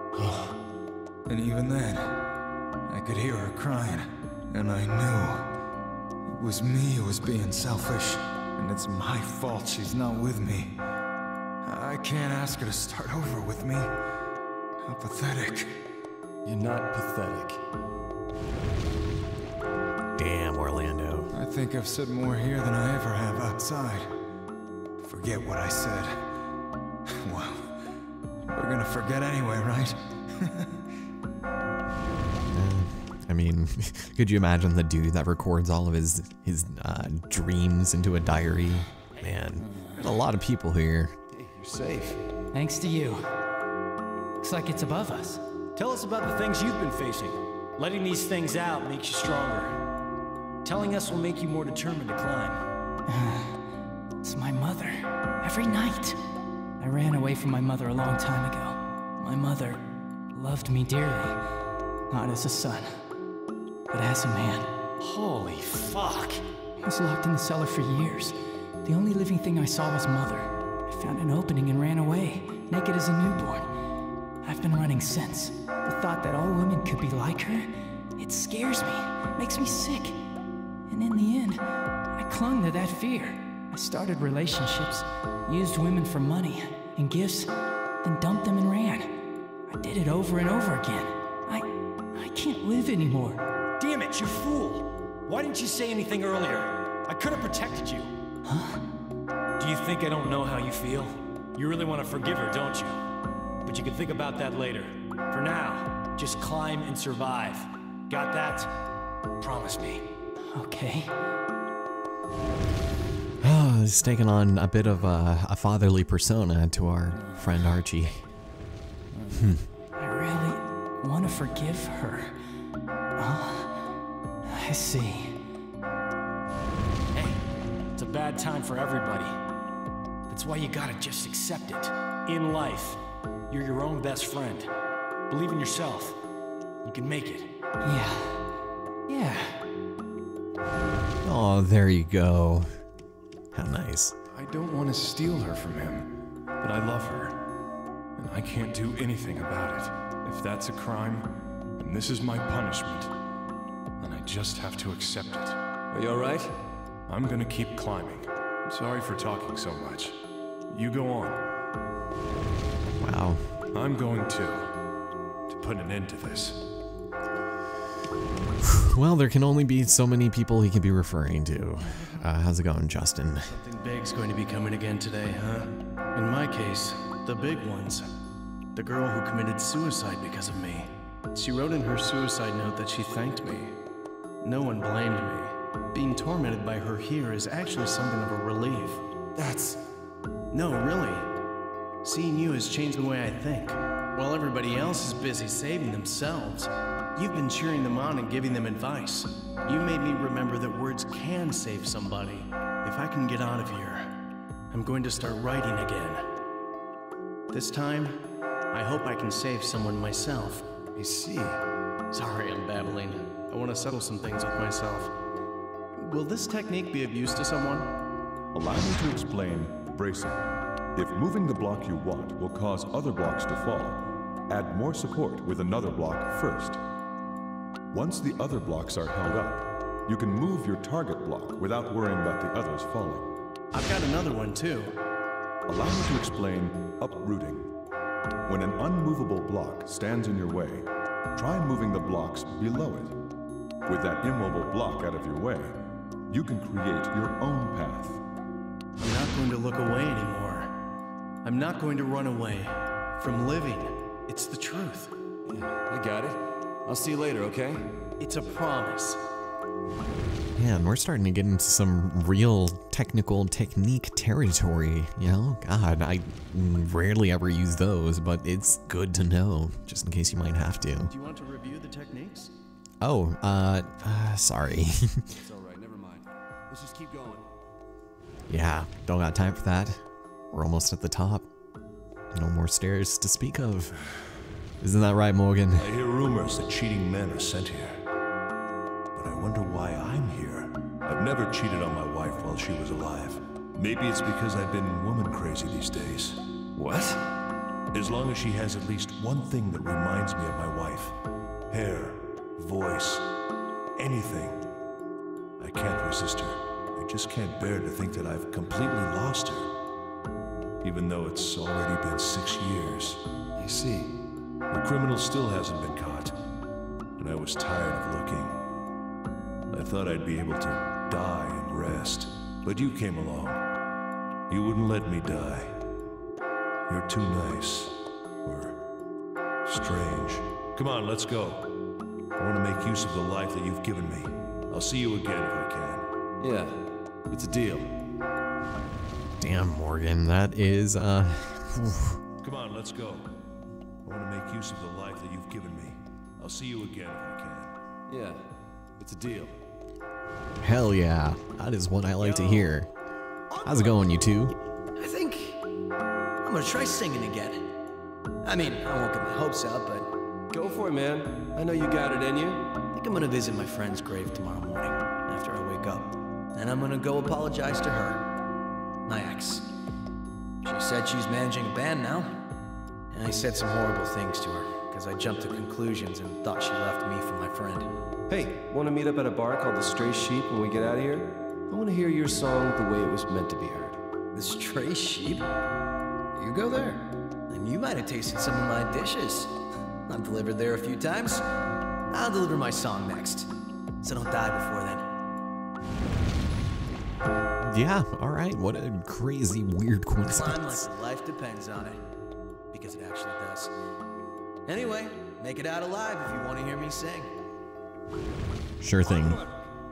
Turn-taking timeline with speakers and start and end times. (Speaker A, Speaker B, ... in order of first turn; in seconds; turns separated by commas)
Speaker A: 1.3-2.2, Speaker A: 2.9-5.5, Speaker A: 6.3-10.8, Speaker A: 11.6-13.9, Speaker A: 14.8-15.7, Speaker B: 16.4-17.6, Speaker C: 20.2-21.3, Speaker A: 21.3-24.1, Speaker A: 25.0-26.1, Speaker A: 27.2-27.7, Speaker A: 28.5-30.7, Speaker C: 32.5-41.2, Speaker B: 41.3-42.2, Speaker D: 42.6-42.9, Speaker E: 42.8-43.2, Speaker D: 44.4-49.8, Speaker D: 50.6-52.6, Speaker E: 53.1-53.6, Speaker E: 54.2-56.2, Speaker E: 56.8-61.4, Speaker E: 62.1-63.0, Speaker E: 63.9-64.7, Speaker D: 65.1-66.3, Speaker E: 66.8-73.7, Speaker E: 74.4-80.2, Speaker E: 80.9-87.5, Speaker E: 88.0-93.5, Speaker D: 93.8-98.1, Speaker E: 98.5-98.8, Speaker D: 99.6-103.0, Speaker D: 103.7-108.7, Speaker D: 109.4-110.0, Speaker E: 110.5-111.2, Speaker C: 113.4-118.2, Speaker C: 119.3-119.6, Speaker E: 120.0-122.3, Speaker E: 123.2-123.7, Speaker E: 124.5-125.4, Speaker D: 127.1-127.4, Speaker D: 128.0-129.4, Speaker D: 130.3-134.7, Speaker D: 135.3-136.2, Speaker D: 136.8-137.5, Speaker E: 137.8-138.4, Speaker E: 139.1-139.6, Speaker C: 141.2-142.7, Speaker C: 143.5-144.2, Speaker F: 144.3-147.4, Speaker F: 148.2-151.3, Speaker F: 151.8-153.1, Speaker F: 154.0-155.6, Speaker B: 155.9-156.6, Speaker F: 157.1-160.2, Speaker F: 160.7-161.4, Speaker C: 163.0-163.4, Speaker F: 163.7-164.7, Speaker F: 165.5-166.6, Speaker C: 168.6-173.6, Speaker G: 173.5-178.1, Speaker G: 178.7-183.8, Speaker G: 184.4-189.1, Speaker B: 189.4-189.8, Speaker G: 190.5-191.3, Speaker G: 192.0-204.1, Speaker G: 204.7-206.3, Speaker G: 207.5-210.7, Speaker B: 211.0-211.6, Speaker G: 212.1-215.2, Speaker G: 216.0-217.9, Speaker H: 218.6-220.4, Speaker H: 221.0-223.9, Speaker H: 224.6-226.7, Speaker H: 228.0-229.6, Speaker H: 230.1-233.2, Speaker G: 233.7-234.9, Speaker H: 235.7-237.6, Speaker H: 238.6-240.8, Speaker H: 241.5-243.1, Speaker H: 244.0-245.7, Speaker H: 246.3-248.2, Speaker G: 249.0-250.8, Speaker G: 251.4-255.2, Speaker B: 255.5-257.9, Speaker G: 258.2-259.2, Speaker C: 260.6-271.1, Speaker G: 271.1-272.5, Speaker C: 273.0-275.3, Speaker B: 275.4-277.5, Speaker C: 278.5-281.5, Speaker C: 282.3-284.0, Speaker C: 284.8-285.9, Speaker I: 285.8-288.1, Speaker I: 289.1-296.5, Speaker B: 296.8-297.2, Speaker I: 297.9-301.2, Speaker I: 301.7-303.3, Speaker I: 304.0-304.6, Speaker I: 305.6-309.7, Speaker I: 310.8-313.3, Speaker B: 313.6-314.1, Speaker I: 314.7-316.4, Speaker I: 317.2-318.6, Speaker I: 319.7-323.7, Speaker I: 324.5-325.8, Speaker I: 326.9-328.8, Speaker I: 329.6-331.8, Speaker I: 332.4-336.1, Speaker B: 336.4-337.9, Speaker C: 339.4-342.2, Speaker I: 342.4-343.3, Speaker I: 344.0-347.7, Speaker B: 348.1-348.4, Speaker B: 349.0-349.6, Speaker C: 350.6-352.9, Speaker J: 352.2-352.7, Speaker J: 353.6-353.9, Speaker C: 353.6-354.6, Speaker J: 355.0-355.6, Speaker J: 356.4-357.8, Speaker J: 358.4-360.1, Speaker B: 360.5-362.8, Speaker J: 362.9-368.3, Speaker J: 369.1-369.7, Speaker J: 370.6-372.4, Speaker J: 373.1-377.9, Speaker B: 378.3-384.0, Speaker J: 384.4-385.5, Speaker J: 386.4-391.4, Speaker J: 392.1-395.1, Speaker C: 397.7-400.9, Speaker J: 400.3-402.0, Speaker J: 402.7-403.7, Speaker J: 404.7-407.3, Speaker C: 408.8-409.4